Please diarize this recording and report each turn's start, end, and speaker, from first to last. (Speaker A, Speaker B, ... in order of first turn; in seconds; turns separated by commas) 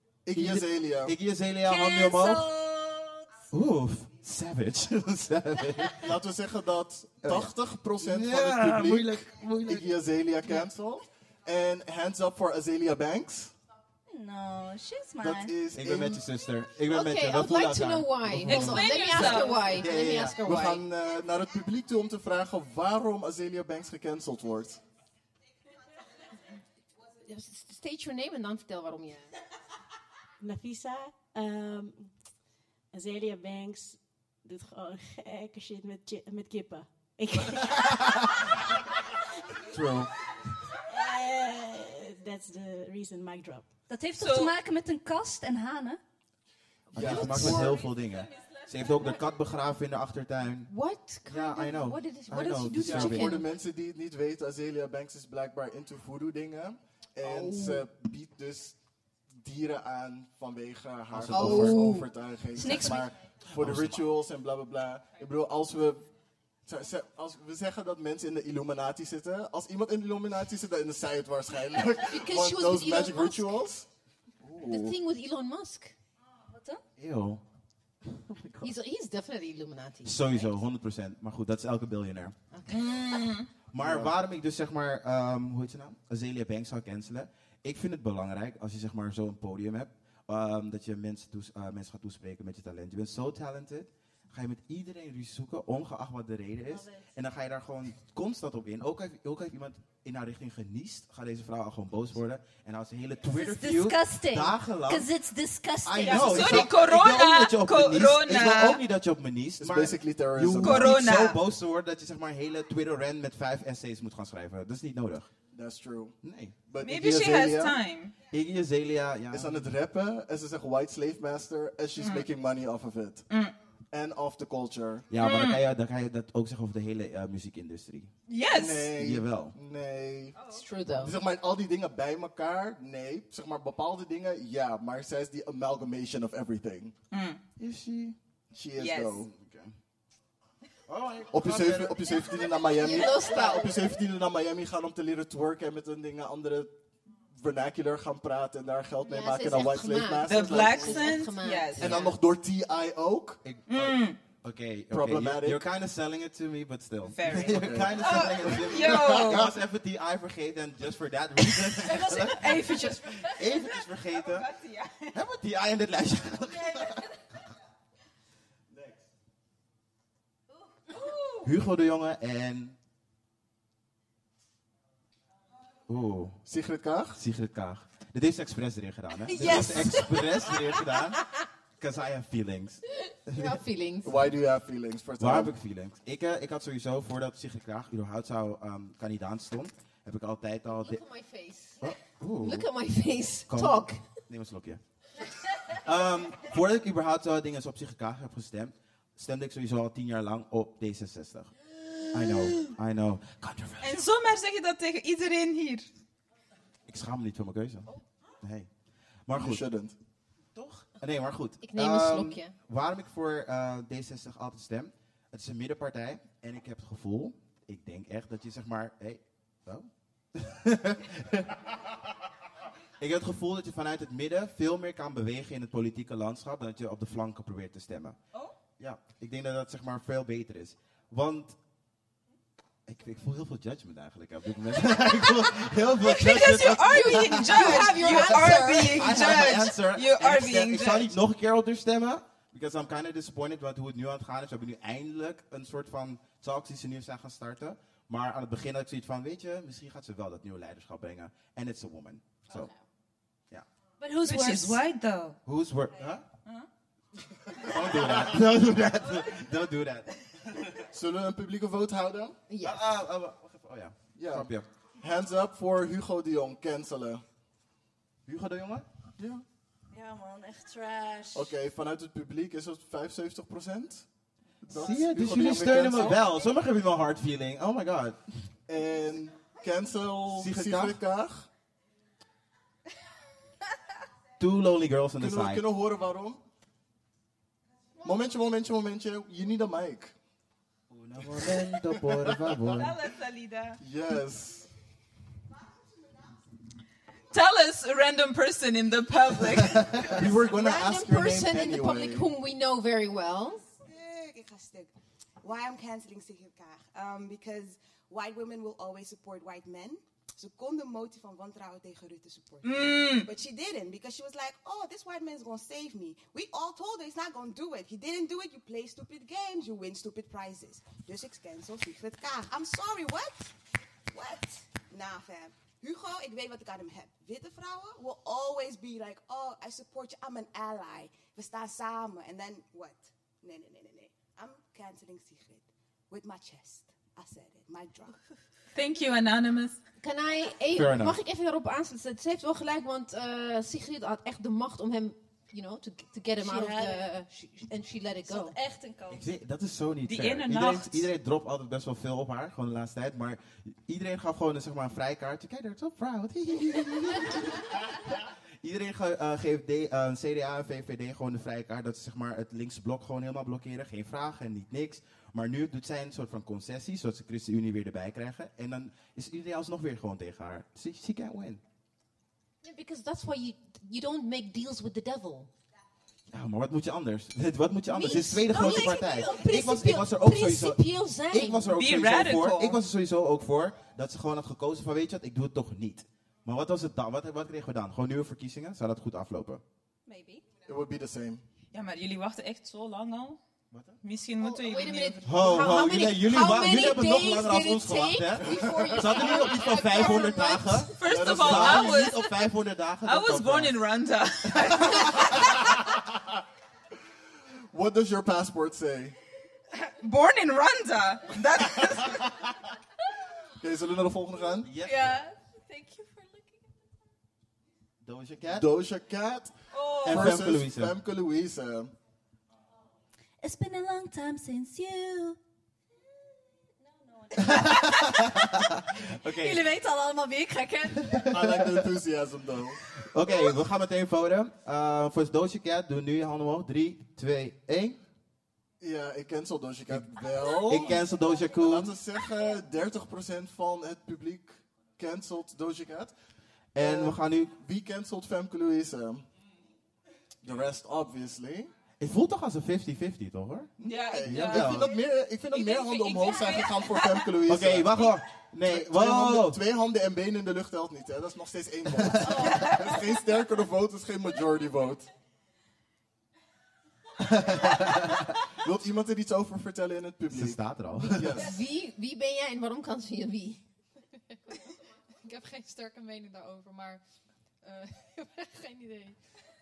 Speaker A: 0.2-1.1, Speaker B: 0.3-2.5, Speaker C: 1.6-3.3, Speaker B: 3.5-6.1, Speaker A: 5.9-13.5, Speaker B: 7.2-9.9, Speaker C: 14.1-15.5, Speaker A: 15.2-16.2, Speaker B: 15.7-20.4, Speaker D: 16.9-20.8, Speaker E: 18.5-19.8, Speaker A: 20.4-24.8, Speaker D: 27.2-29.3, Speaker F: 30.4-32.1, Speaker F: 32.9-38.6, Speaker B: 39.7-40.1, Speaker F: 40.9-43.6, Speaker C: 43.9-46.0, Speaker E: 44.2-44.5, Speaker B: 46.9-50.7, Speaker A: 46.9-47.7, Speaker D: 46.9-47.8, Speaker D: 50.6-53.5, Speaker B: 51.2-53.4, Speaker A: 52.8-58.8, Speaker D: 57.2-57.8, Speaker A: 59.4-66.0, Speaker B: 61.1-62.0, Speaker D: 61.3-62.1, Speaker C: 62.5-63.1, Speaker B: 63.5-64.1, Speaker A: 66.7-73.8, Speaker D: 72.0-73.6, Speaker A: 74.4-74.9, Speaker D: 74.6-75.9, Speaker C: 76.5-76.8, Speaker B: 77.0-77.4, Speaker B: 78.1-78.7, Speaker D: 78.6-80.5, Speaker B: 80.0-82.3, Speaker D: 82.5-83.2, Speaker E: 82.7-83.5, Speaker B: 83.7-105.1, Speaker A: 83.8-84.1, Speaker C: 96.7-97.0, Speaker C: 103.3-106.6, Speaker B: 105.8-115.3, Speaker E: 106.0-108.8, Speaker A: 109.6-111.0, Speaker E: 110.6-111.4, Speaker A: 115.5-116.2, Speaker B: 116.2-116.6, Speaker A: 116.7-117.8, Speaker E: 116.8-118.1, Speaker B: 118.3-119.7, Speaker A: 119.3-123.2, Speaker E: 122.0-122.2, Speaker A: 123.9-125.0, Speaker B: 125.1-128.1, Speaker E: 125.2-125.6, Speaker E: 128.3-128.9, Speaker A: 128.4-130.4, Speaker B: 129.0-129.5, Speaker D: 130.5-131.2, Speaker A: 131.0-136.9, Speaker E: 137.1-137.4, Speaker B: 137.6-138.2, Speaker A: 138.5-139.3, Speaker E: 138.8-139.2, Speaker B: 139.2-139.7, Speaker B: 140.9-142.3, Speaker A: 141.3-146.7, Speaker D: 142.7-143.9, Speaker B: 143.3-143.6, Speaker A: 147.3-151.2, Speaker D: 149.0-152.2, Speaker E: 150.2-152.1, Speaker A: 151.8-153.4, Speaker B: 153.4-164.5, Speaker E: 153.7-154.2, Speaker A: 154.9-155.6, Speaker E: 157.1-159.5, Speaker A: 157.3-159.4, Speaker C: 161.8-163.4, Speaker E: 162.6-165.2, Speaker B: 165.1-167.0, Speaker A: 168.7-169.0, Speaker C: 170.8-171.1, Speaker B: 171.4-172.8, Speaker B: 175.9-176.4, Speaker A: 176.4-177.2, Speaker B: 177.1-183.6, Speaker D: 179.3-180.8, Speaker D: 183.1-184.3, Speaker A: 184.0-185.5, Speaker B: 185.2-191.0, Speaker D: 190.7-194.0, Speaker B: 191.8-192.7, Speaker B: 193.5-194.8, Speaker B: 195.7-201.5, Speaker B: 202.1-204.1, Speaker E: 203.8-205.8, Speaker B: 206.9-208.7, Speaker B: 209.3-209.6, Speaker A: 209.3-209.9, Speaker B: 210.5-221.9, Speaker D: 211.6-212.5, Speaker B: 223.0-228.2, Speaker B: 228.8-231.6, Speaker B: 232.8-252.7, Speaker E: 236.0-241.1, Speaker D: 236.7-239.6, Speaker C: 254.0-254.8, Speaker E: 254.2-255.4, Speaker B: 255.4-256.2, Speaker B: 257.6-260.9, Speaker A: 260.9-262.4, Speaker D: 262.5-262.8, Speaker B: 262.6-264.7, Speaker A: 264.1-267.2, Speaker B: 268.2-268.9, Speaker A: 269.2-269.4, Speaker C: 269.9-271.5, Speaker A: 271.3-274.0, Speaker A: 274.6-276.2, Speaker B: 274.7-278.2, Speaker A: 278.7-281.5, Speaker B: 280.3-281.0, Speaker B: 284.4-285.6, Speaker A: 285.2-286.4, Speaker A: 288.0-290.1, Speaker B: 290.9-292.9, Speaker A: 292.0-292.4, Speaker E: 292.7-293.8, Speaker A: 293.8-294.7, Speaker E: 297.3-300.3, Speaker B: 299.8-300.4, Speaker A: 300.0-302.3, Speaker D: 300.4-303.6, Speaker G: 303.7-304.9, Speaker G: 305.4-323.5, Speaker E: 312.6-313.3, Speaker G: 324.1-338.2, Speaker E: 338.7-339.8, Speaker D: 340.0-348.5, Speaker B: 340.7-341.2, Speaker C: 346.4-347.1, Speaker C: 348.2-349.2, Speaker B: 349.1-371.6, Speaker E: 350.1-351.1, Speaker D: 372.6-375.5, Speaker B: 376.3-389.6, Speaker D: 377.9-381.8, Speaker E: 381.7-382.8, Speaker C: 390.1-390.4, Speaker A: 390.7-391.4, Speaker E: 391.7-393.4, Speaker B: 393.7-394.0, Speaker E: 394.0-395.5, Speaker D: 394.4-400.9, Speaker B: 395.2-403.8, Speaker A: 398.6-399.1, Speaker E: 400.9-402.4, Speaker A: 401.0-402.0, Speaker E: 403.0-405.7, Speaker B: 404.5-405.4, Speaker A: 407.7-409.1, Speaker E: 409.7-412.4, Speaker A: 413.6-414.7, Speaker B: 414.6-415.2, Speaker C: 414.8-416.7, Speaker B: 418.0-418.6, Speaker A: 418.5-421.9, Speaker E: 419.7-420.4, Speaker B: 420.1-420.9, Speaker C: 423.4-425.4, Speaker C: 426.8-428.5, Speaker B: 427.3-429.6, Speaker C: 429.2-431.3, Speaker B: 431.1-431.7, Speaker A: 431.3-432.9, Speaker B: 432.9-438.0, Speaker A: 438.8-441.0, Speaker B: 440.6-441.9, Speaker A: 441.5-446.1, Speaker B: 446.7-447.5, Speaker A: 446.8-449.2, Speaker A: 450.4-451.7, Speaker B: 452.0-453.7, Speaker A: 453.8-458.0, Speaker E: 453.8-455.0, Speaker B: 454.2-454.9, Speaker E: 455.5-457.2, Speaker B: 457.5-459.6, Speaker A: 458.6-465.1, Speaker B: 462.0-462.7, Speaker B: 467.2-468.3, Speaker A: 468.5-471.5, Speaker B: 470.3-471.4, Speaker D: 471.3-473.6, Speaker H: 475.2-477.0, Speaker H: 477.6-479.2